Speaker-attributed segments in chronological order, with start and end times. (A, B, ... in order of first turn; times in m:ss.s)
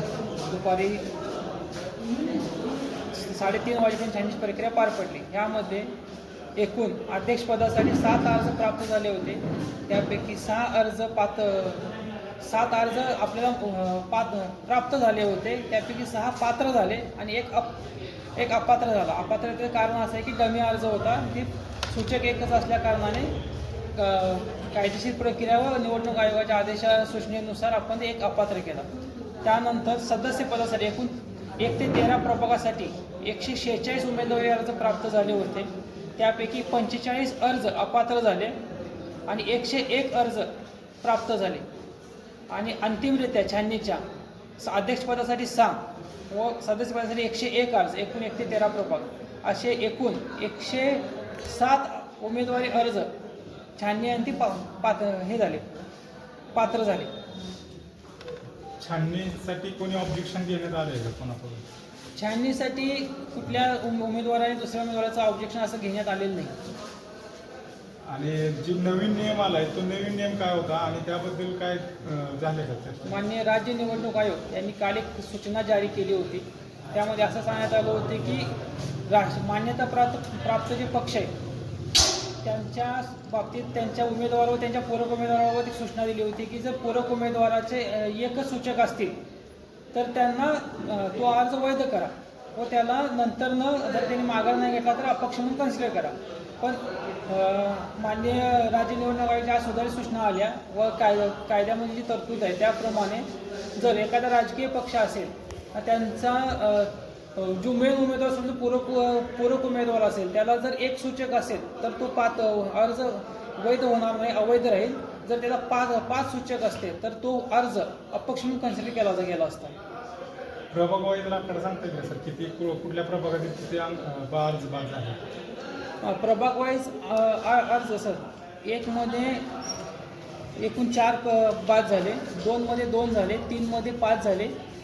0:00.4-0:01.0 A
0:03.1-0:05.9 A
0:06.5-0:17.8 A
0:18.3-0:23.3 A
0:23.9-0:28.9 A
0:29.4-0:38.6 A
0:39.3-0:41.6 A
0:42.5-0:44.0 A
0:44.6-0:53.1 A
0:53.8-0:55.7 A
0:56.5-0:57.1 A
0:58.8-1:01.6 B
1:02.2-1:06.6 A
1:08.1-1:13.2 B
1:13.0-1:18.5 A
1:19.0-1:21.3 A
1:22.4-1:29.2 A
1:29.9-1:59.7 A
2:00.7-2:05.2 B
2:06.0-2:09.5 A
2:10.6-2:14.5 A